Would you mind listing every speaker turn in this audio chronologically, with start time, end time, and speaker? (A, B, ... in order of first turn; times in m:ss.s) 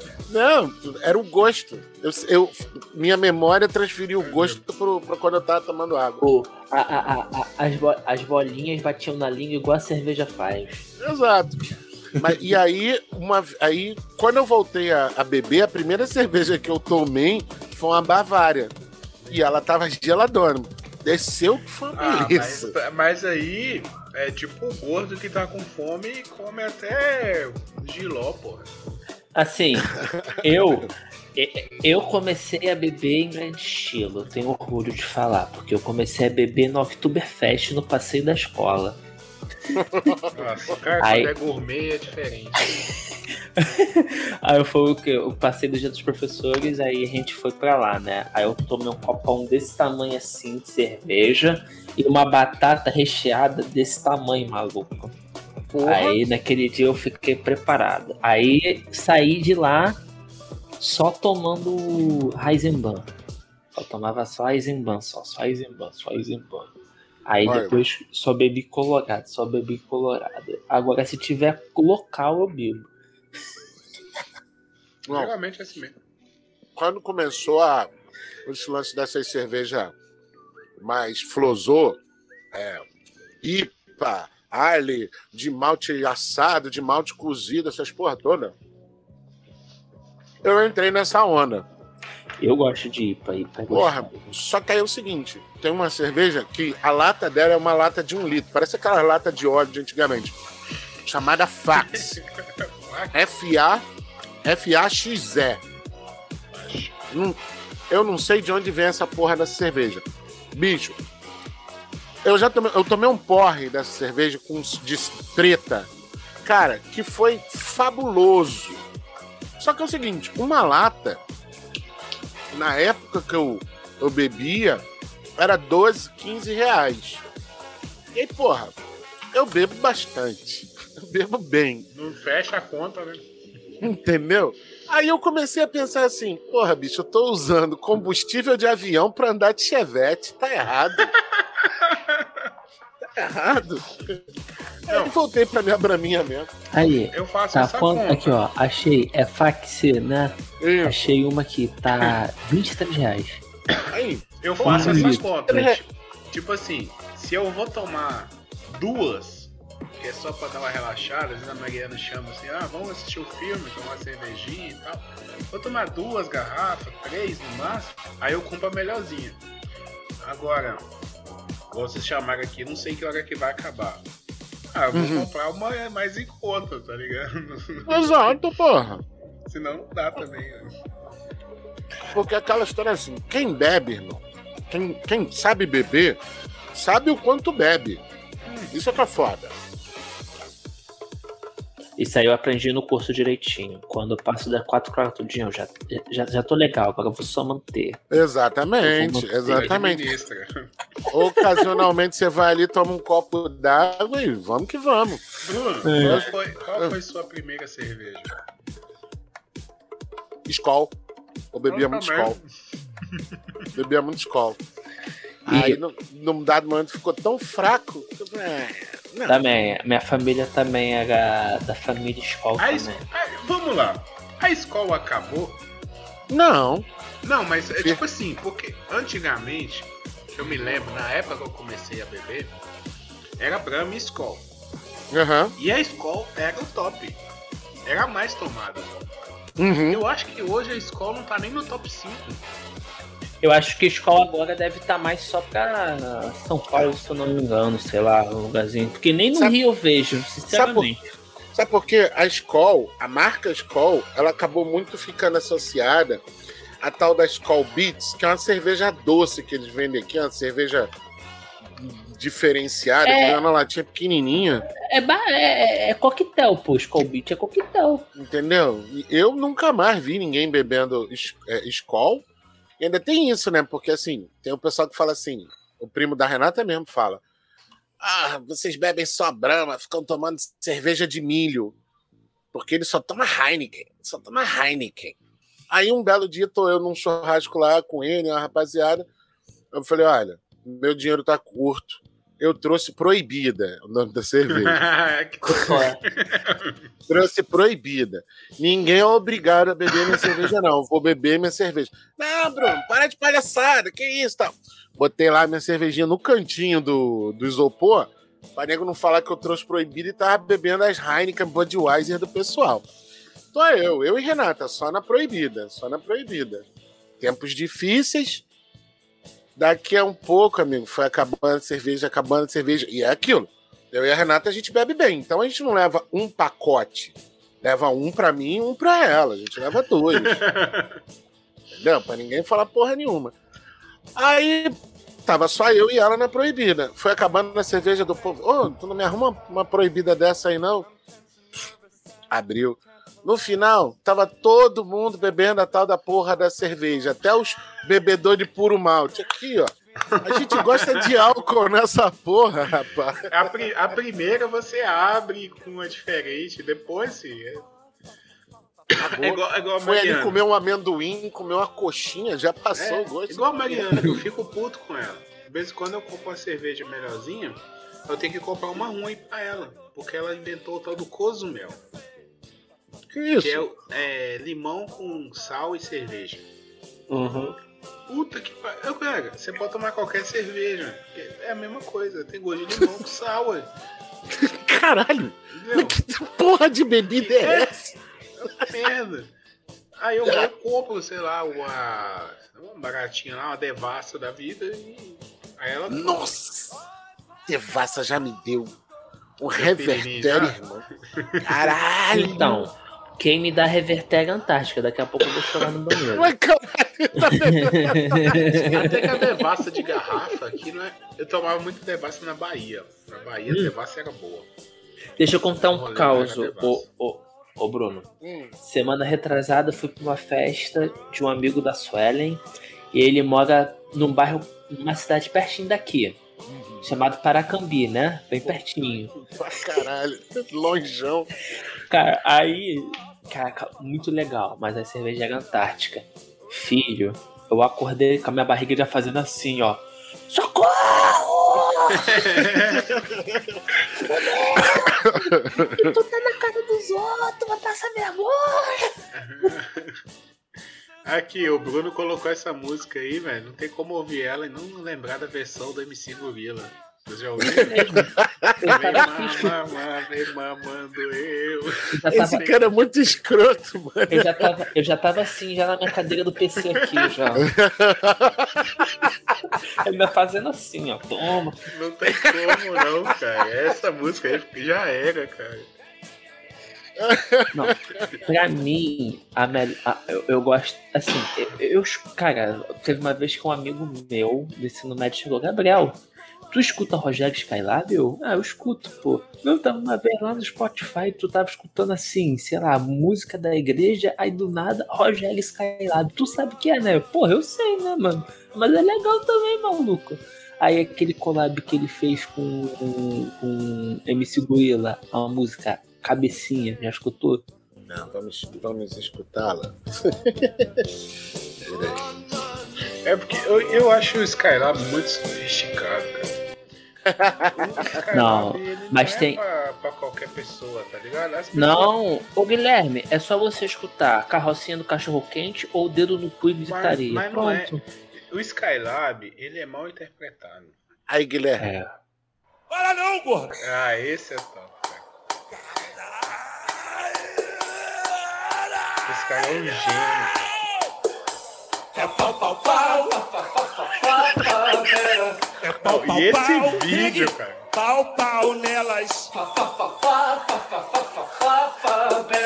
0:00.3-0:06.2 A
0:04.2-0:04.6 B
0:06.2-0:10.8 C
0:11.0-0:18.7 A
0:19.2-0:19.5 B
0:19.3-0:22.7 A
0:22.0-0:28.7 B
0:29.4-0:39.0 C
0:29.8-0:30.9 A
0:39.7-0:40.3 A
0:40.3-0:42.8 B
0:41.0-0:41.3 C
0:43.6-0:55.1 C
0:55.7-0:56.2 A
0:55.8-1:00.0 C
1:00.8-1:03.1 C
1:03.7-1:06.7 C
1:07.2-1:12.9 C
1:07.4-1:07.8 A
1:15.1-1:15.9 B
1:16.8-1:17.9 A
1:18.4-1:19.9 A
1:20.8-1:22.0 A
1:22.5-1:22.9 A
1:23.4-1:28.5 A
1:30.4-1:31.6 A
1:32.4-1:34.2 C
1:33.7-1:40.4 A
1:41.0-1:42.2 A
1:41.8-1:43.2 B
1:43.1-1:43.8 A
1:44.4-1:45.6 A
1:46.5-1:47.0 B
1:47.1-1:47.4 A
1:47.9-1:51.0 A
1:52.2-1:55.9 A
1:56.4-1:58.8 A
1:59.6-2:01.2 A
2:02.5-2:04.8 A
2:05.4-2:07.2 A
2:08.1-2:08.8 A
2:09.3-2:11.8 A
2:11.9-2:13.3 B
2:13.8-2:21.1 A
2:21.1-2:22.5 B
2:23.1-2:24.2 A
2:24.8-2:26.5 A
2:24.9-2:25.1 B
2:26.7-2:33.4 C
2:27.1-2:28.4 B
2:30.6-2:31.0 A
2:33.9-2:35.8 A
2:34.4-2:49.4 B
2:34.6-2:35.2 C
2:50.2-2:50.8 B
2:51.7-2:54.0 B
2:54.7-2:58.4 B
2:54.9-2:55.3 A
2:57.9-2:59.0 A
2:59.4-3:00.7 B
3:02.1-3:06.2 A
3:06.7-3:08.0 A
3:08.4-3:08.7 B
3:08.7-3:09.5 A
3:12.0-3:18.0 C
3:18.1-3:20.0 A
3:18.8-3:19.6 C
3:19.5-3:20.6 B
3:21.1-3:25.2 A
3:25.4-3:28.4 B
3:25.8-3:26.2 C
3:26.0-3:26.9 A
3:30.5-3:30.9 A
3:31.5-3:32.4 A
3:31.7-3:32.4 B
3:33.7-3:34.6 A
3:35.5-3:39.4 A
3:35.5-3:35.8 C
3:39.3-3:43.0 C
3:42.6-3:45.6 B
3:46.3-3:46.8 A
3:47.2-3:52.5 B
3:53.4-3:54.4 B
3:55.1-3:55.5 A
3:55.6-3:57.2 B
3:57.8-3:59.0 B
3:59.6-4:00.0 A
3:59.9-4:02.4 B
4:03.4-4:11.0 C
4:10.5-4:10.8 A
4:11.5-4:16.2 A
4:16.8-4:20.9 A
4:21.8-4:24.6 A
4:23.0-4:23.4 C
4:24.9-4:28.0 C
4:28.1-4:32.2 A
4:32.8-4:37.2 A
4:38.0-4:41.8 A
4:42.5-4:45.2 A
4:45.7-4:49.1 A
4:49.7-4:54.8 A
4:54.5-4:56.7 B
4:55.5-4:56.0 C
4:57.1-5:12.9 A
5:13.5-5:16.6 A
5:17.2-5:18.4 A
5:19.6-5:30.4 A
5:30.2-5:31.0 B
5:31.7-5:33.3 A
5:34.2-5:34.7 A
5:35.2-5:40.9 A
5:42.3-5:53.5 A
5:50.1-5:51.2 B
5:53.3-5:57.7 B
5:59.0-6:00.4 B
5:59.0-6:04.1 A
6:02.7-6:11.8 B
6:13.1-6:13.6 A
6:13.4-6:16.5 B
6:17.1-6:17.5 C
6:18.1-6:23.7 B
6:24.3-6:27.9 A
6:25.5-6:26.0 B
6:27.2-6:27.8 B
6:28.4-6:29.3 B
6:30.0-6:36.4 B
6:35.9-6:36.8 A
6:37.5-6:38.8 A
6:39.4-6:40.8 A
6:39.6-6:40.6 B
6:41.1-6:41.7 B
6:41.4-6:42.7 A
6:42.1-6:46.3 C
6:45.9-6:50.1 A
6:47.3-6:48.9 C
6:48.6-6:54.5 B
6:53.5-6:53.7 C
6:55.2-6:58.1 C
6:55.6-6:56.8 B
6:58.2-6:58.5 A
6:58.6-7:06.2 C
7:06.4-7:06.8 A
7:06.8-7:09.1 C
7:09.2-7:11.3 A
7:11.9-7:22.7 C
7:21.9-7:22.9 B
7:23.8-7:28.9 C
7:24.7-7:25.9 A
7:29.1-7:30.0 B
7:31.0-7:38.0 B
7:37.4-7:39.5 C
7:37.4-7:39.0 A
7:38.7-7:41.9 B
7:41.9-7:42.5 C
7:42.1-7:44.6 A
7:44.1-7:47.5 C
7:47.4-7:49.1 A
7:49.5-7:51.6 C
7:51.7-7:55.7 B
7:52.1-7:52.8 A
7:57.0-7:58.1 A
7:57.5-8:06.0 C
8:06.5-8:27.4 C
8:27.9-8:30.8 A
8:31.6-8:32.1 A
8:33.0-8:36.3 B
8:37.1-8:37.9 A
8:37.6-8:41.9 B
8:38.1-8:39.4 C
8:41.5-8:47.8 C
8:46.7-8:47.8 B
8:48.3-8:50.8 B
8:51.1-8:51.7 A
8:51.6-8:51.9 C
8:52.7-8:53.6 D
8:53.6-8:55.1 B
8:55.7-8:59.1 D
8:59.0-9:00.3 B
9:00.2-9:00.7 D
9:01.9-9:09.4 D
9:05.8-9:07.6 B
9:09.8-9:10.4 C
9:12.0-9:12.3 C